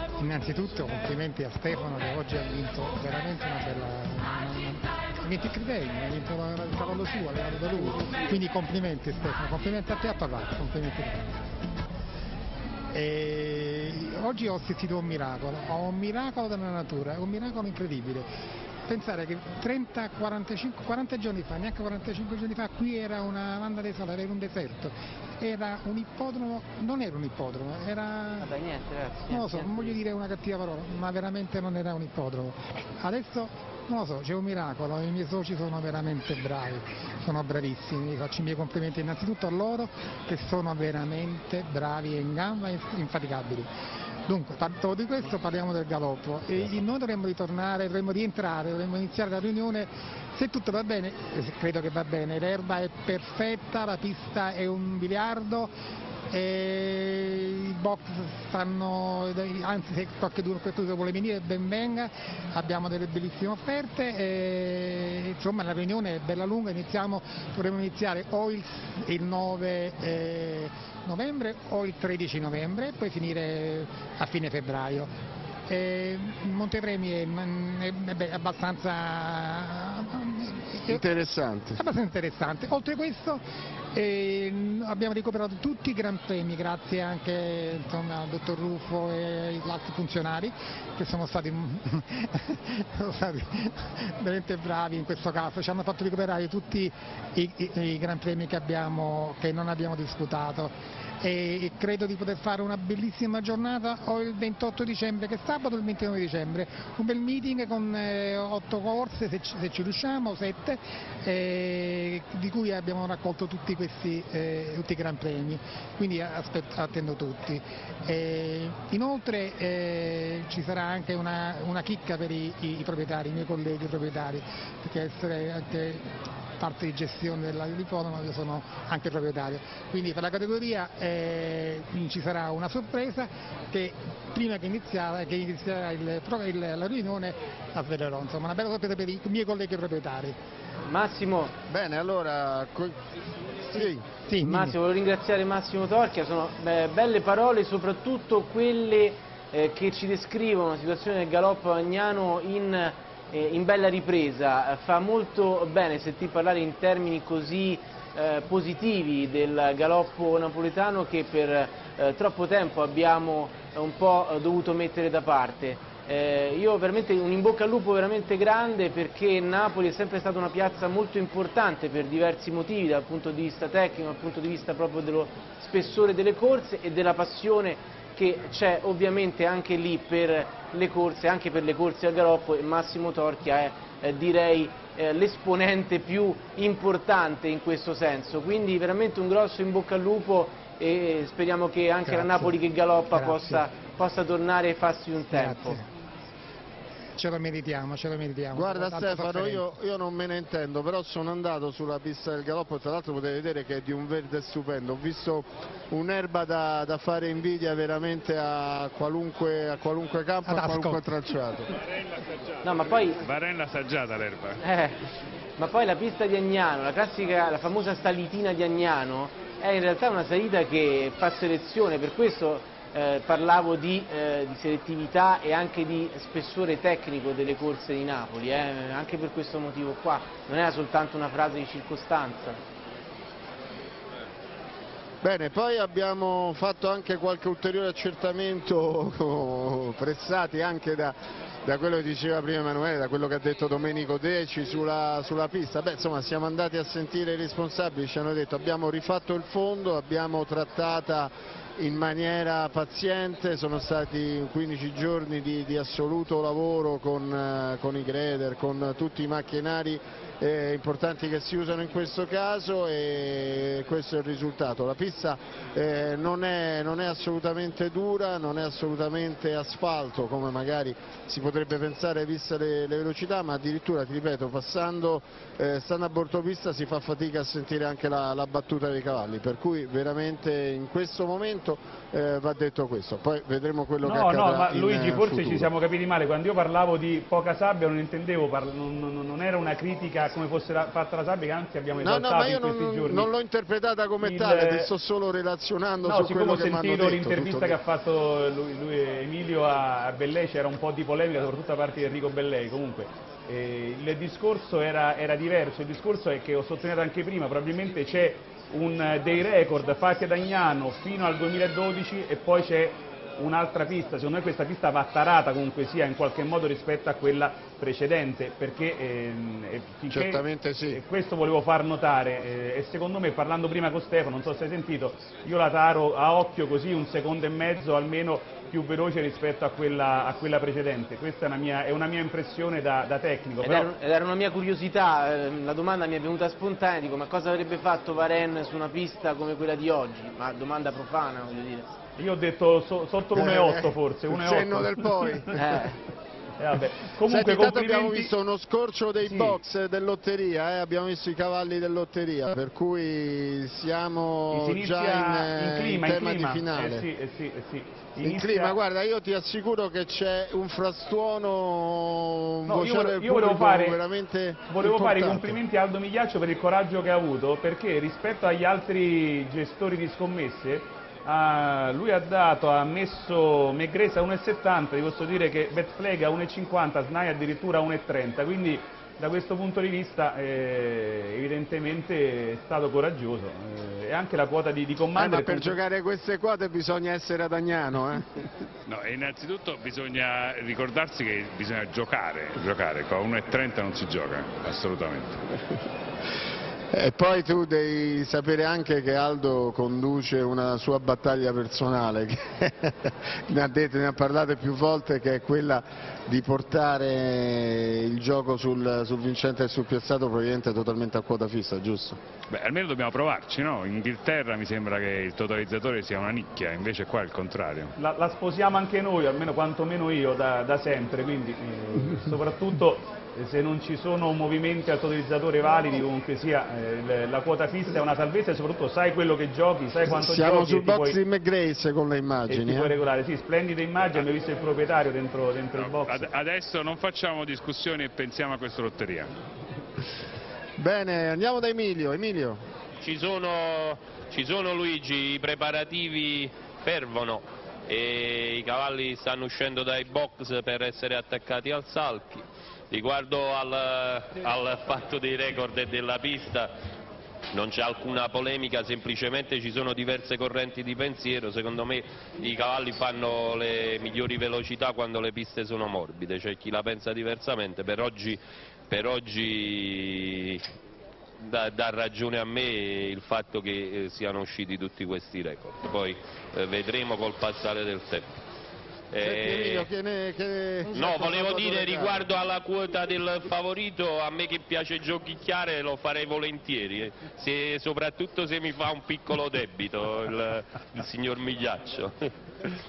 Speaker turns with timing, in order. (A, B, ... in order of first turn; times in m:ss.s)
0:00.2-0:11.3 A
0:12.9-0:18.3 A
0:18.9-0:28.5 A
0:28.4-0:30.0 B
0:29.3-0:43.7 A
0:44.3-0:55.7 A
0:56.3-1:15.1 A
1:15.7-1:21.0 A
1:20.9-1:21.8 C
1:21.8-2:06.1 A
2:06.6-2:20.4 A
2:20.8-2:21.5 B
2:21.7-2:23.0 C
2:23.7-2:24.0 C
2:24.3-2:24.8 A
2:24.4-3:15.8 B
3:12.1-3:12.6 A
3:13.1-3:13.6 A
3:15.3-3:15.9 A
3:17.2-3:19.6 A
3:18.5-3:31.7 C
3:30.5-3:31.0 A
3:32.6-3:33.2 B
3:33.2-3:34.6 D
3:34.6-3:35.0 B
3:35.6-3:52.6 B
3:55.2-4:45.7 C
4:44.0-4:53.3 E
4:52.0-4:57.8 C
4:54.2-4:54.9 E
4:56.0-5:33.9 E
5:20.1-5:21.0 C
5:33.6-5:41.9 B
5:42.2-5:45.4 E
5:43.3-5:45.8 C
5:45.5-5:46.0 B
5:46.6-5:48.3 E
5:47.2-5:57.1 C
5:49.3-5:49.6 E
5:54.5-5:58.8 E
5:58.2-6:05.6 C
6:02.6-6:04.0 E
6:04.7-6:25.8 E
6:25.1-6:28.4 C
6:28.9-6:35.4 D
6:36.9-6:52.2 C
6:52.5-6:57.9 D
6:58.0-7:11.2 E
7:10.0-7:13.0 C
7:12.5-7:16.3 E
7:15.8-7:19.4 D
7:20.8-7:22.6 C
7:23.0-7:36.7 F
7:37.5-7:50.6 F
7:51.4-7:58.3 F
7:59.1-7:59.9 F
7:59.2-8:02.3 C
8:00.9-8:12.3 F